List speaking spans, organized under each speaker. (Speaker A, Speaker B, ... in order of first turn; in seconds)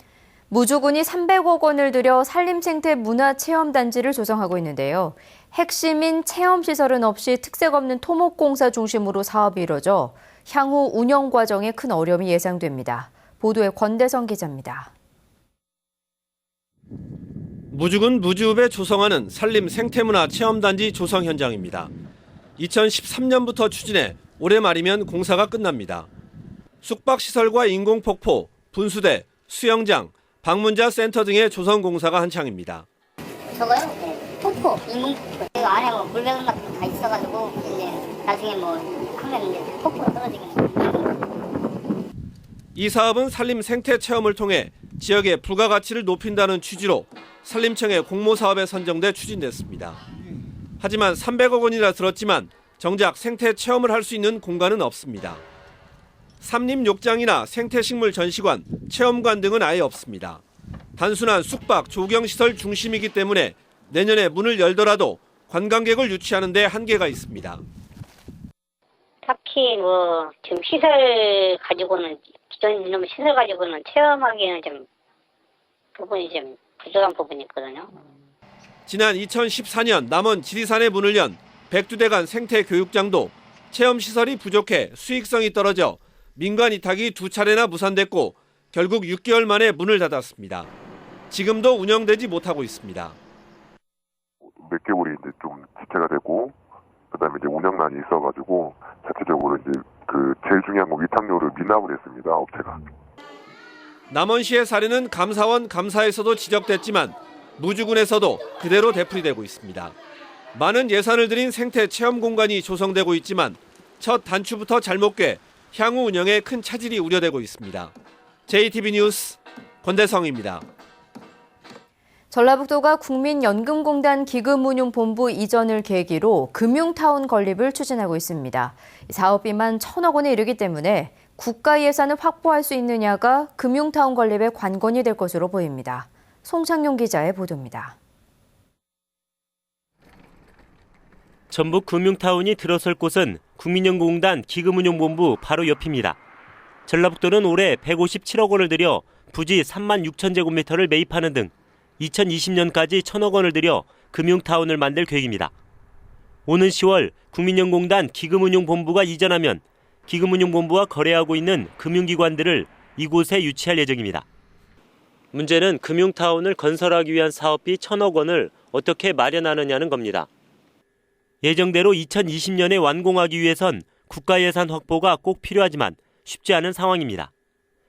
Speaker A: 0.5-14.9, 122.3-137.9
Speaker B: 17.7-21.9, 22.6-26.1, 26.8-32.9, 42.7-50.0, 50.8-55.4, 56.4-60.4, 61.0-67.6, 78.9-90.7, 91.3-93.2, 104.1-109.9, 110.5-117.9, 118.5-120.6
Speaker C: 33.5-41.1, 69.2-74.8, 76.0-77.9
Speaker D: 94.5-96.5, 97.1-102.8
Speaker E: 141.5-146.2, 146.9-155.5, 156.5-164.2, 165.3-170.3, 171.4-177.3